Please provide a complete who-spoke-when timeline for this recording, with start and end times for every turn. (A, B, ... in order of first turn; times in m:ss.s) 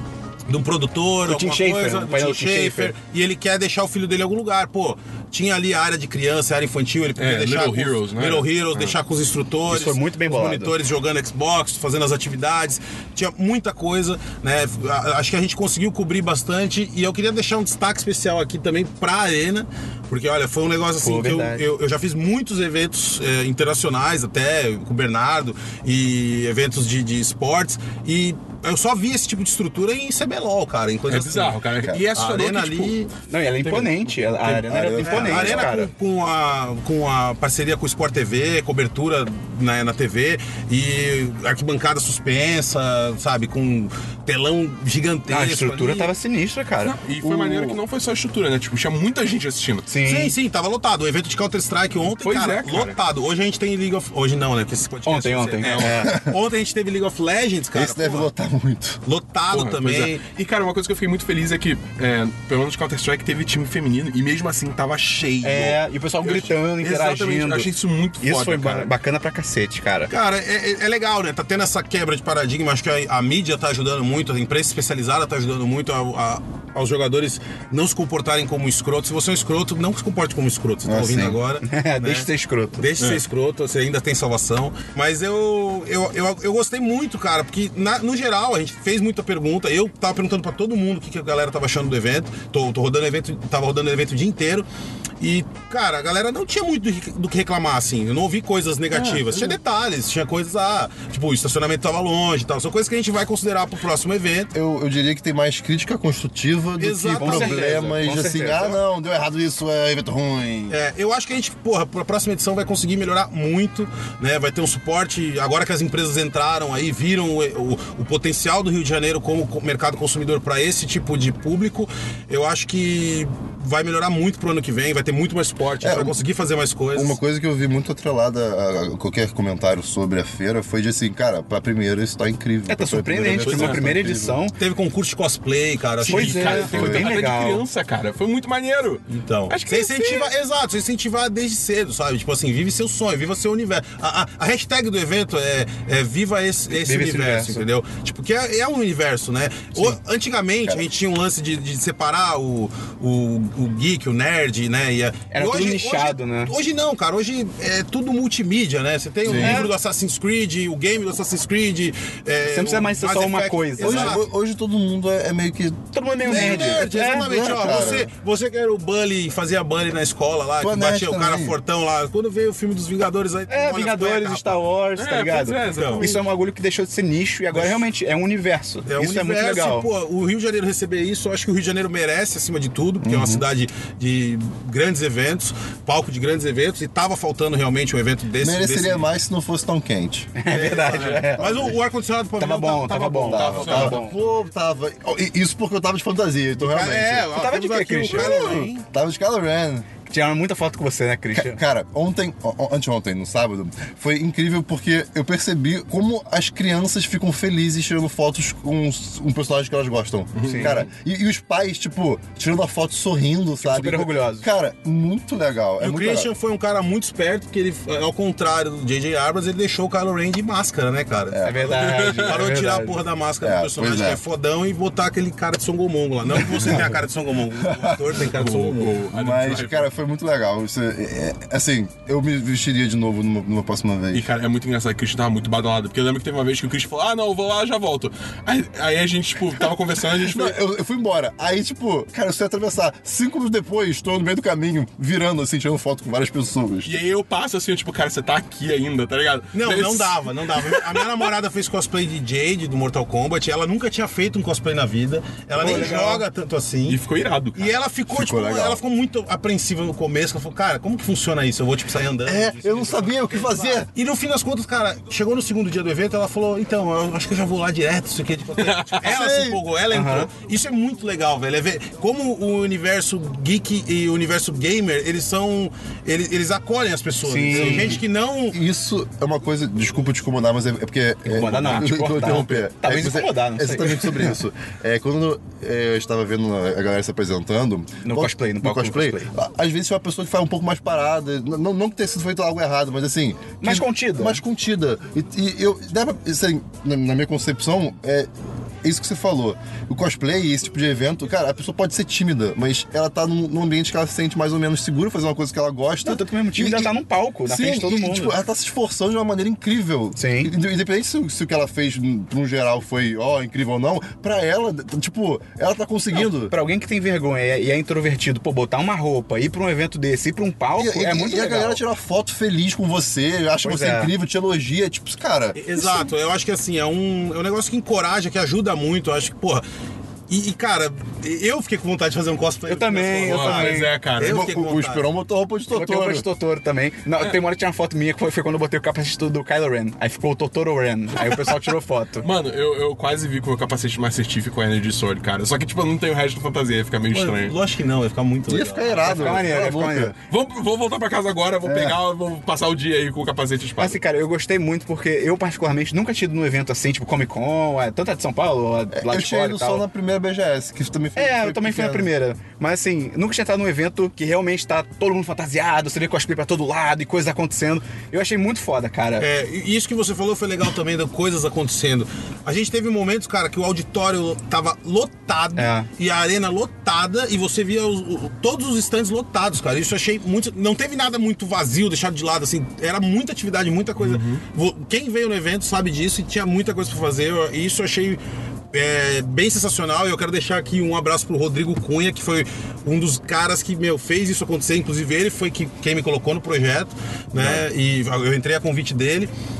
0:00.5-0:33.1 A
0:01.2-0:02.9 B
0:07.2-0:09.0 C
0:09.7-0:10.8 B
0:21.0-0:21.6 B
0:31.1-0:33.0 C
0:33.3-0:35.9 B
0:33.6-0:34.6 C
0:34.7-0:35.7 D
0:35.0-0:46.1 A
0:45.3-0:47.0 B
0:46.8-0:49.9 C
0:47.2-0:47.8 D
0:49.9-0:50.3 B
0:50.0-0:58.3 A
0:52.2-0:53.0 C
0:55.1-0:56.2 B
0:55.6-0:56.0 C
0:57.7-0:59.0 D
0:59.0-1:00.2 A
0:59.5-1:08.9 C
1:05.4-1:07.7 B
1:08.2-1:10.1 B
1:10.1-1:34.7 A
1:20.8-1:21.4 D
1:21.6-1:22.9 B
1:35.2-1:44.5 A
1:38.9-1:39.4 C
1:44.5-1:50.8 D
1:46.8-1:48.0 A
1:47.1-1:48.8 B
1:50.7-2:07.2 A
2:05.8-2:06.2 D
2:06.9-2:14.4 D
2:12.7-2:14.6 B
2:13.4-2:13.8 C
2:14.6-2:16.7 A
2:16.0-2:20.3 C
2:16.1-2:17.6 B
2:16.7-2:17.1 D
2:19.1-2:44.2 A
2:26.7-2:27.6 B
2:35.3-2:36.5 B
2:39.3-2:39.7 D
2:39.3-2:39.7 B
2:42.4-2:44.2 B
2:43.8-2:48.1 D
2:45.9-2:47.5 B
2:46.2-2:54.6 A
2:50.6-2:51.6 D
2:53.5-2:59.9 B
2:55.0-2:56.2 C
2:55.7-2:56.1 A
2:57.5-2:57.9 A
2:58.9-3:09.1 A
3:03.0-3:03.4 D
3:08.4-3:10.3 D
3:10.4-3:11.7 B
3:10.5-3:14.0 A
3:10.8-3:11.3 C
3:11.4-3:11.8 D
3:12.4-3:14.2 B
3:13.3-3:17.3 D
3:13.3-3:14.0 C
3:16.6-3:18.8 A
3:17.3-3:18.7 B
3:18.1-3:19.9 D
3:20.1-3:21.6 B
3:21.4-3:36.3 D
3:30.4-3:30.9 C
3:30.4-3:30.8 B
3:33.6-3:34.5 B
3:35.8-3:49.0 A
3:41.3-3:41.6 D
3:41.4-3:43.0 B
3:41.6-3:42.5 C
3:43.4-3:44.2 D
3:46.3-3:46.9 D
3:47.5-3:48.2 D
3:48.2-3:49.9 C
3:49.1-3:54.3 D
3:54.1-4:00.6 C
4:00.1-4:07.0 D
4:06.8-4:11.3 C
4:09.5-4:17.0 A
4:15.6-4:16.1 D
4:15.6-4:16.2 B
4:16.9-4:17.8 C
4:17.6-4:38.6 A
4:18.1-4:18.8 D
4:22.2-4:23.9 D
4:28.6-4:29.1 C
4:29.0-4:29.6 D
4:29.9-4:30.3 B
4:37.2-4:38.0 B
4:37.5-4:58.3 D
4:41.3-4:44.4 B
4:48.0-4:49.3 B
4:53.6-4:54.4 B
4:58.8-5:06.9 D
5:06.0-5:08.4 B
5:07.5-5:16.5 D
5:10.2-5:10.5 B
5:16.1-5:21.8 B
5:20.8-5:26.1 D
5:23.6-5:24.1 B
5:25.6-5:29.6 A
5:30.3-5:35.0 A
5:32.7-5:34.0 B
5:33.2-5:34.5 C
5:34.2-5:36.3 D
5:35.7-5:42.3 B
5:42.2-5:47.6 C
5:47.1-5:49.4 A
5:48.5-5:50.1 D
5:49.0-5:50.2 B
5:50.3-5:54.0 C
5:51.6-5:52.0 D
5:53.8-5:59.8 B
5:58.9-6:02.1 D
6:01.2-6:09.3 B
6:09.2-6:28.2 A
6:15.6-6:15.9 B
6:24.0-6:24.4 C
6:28.7-6:39.3 A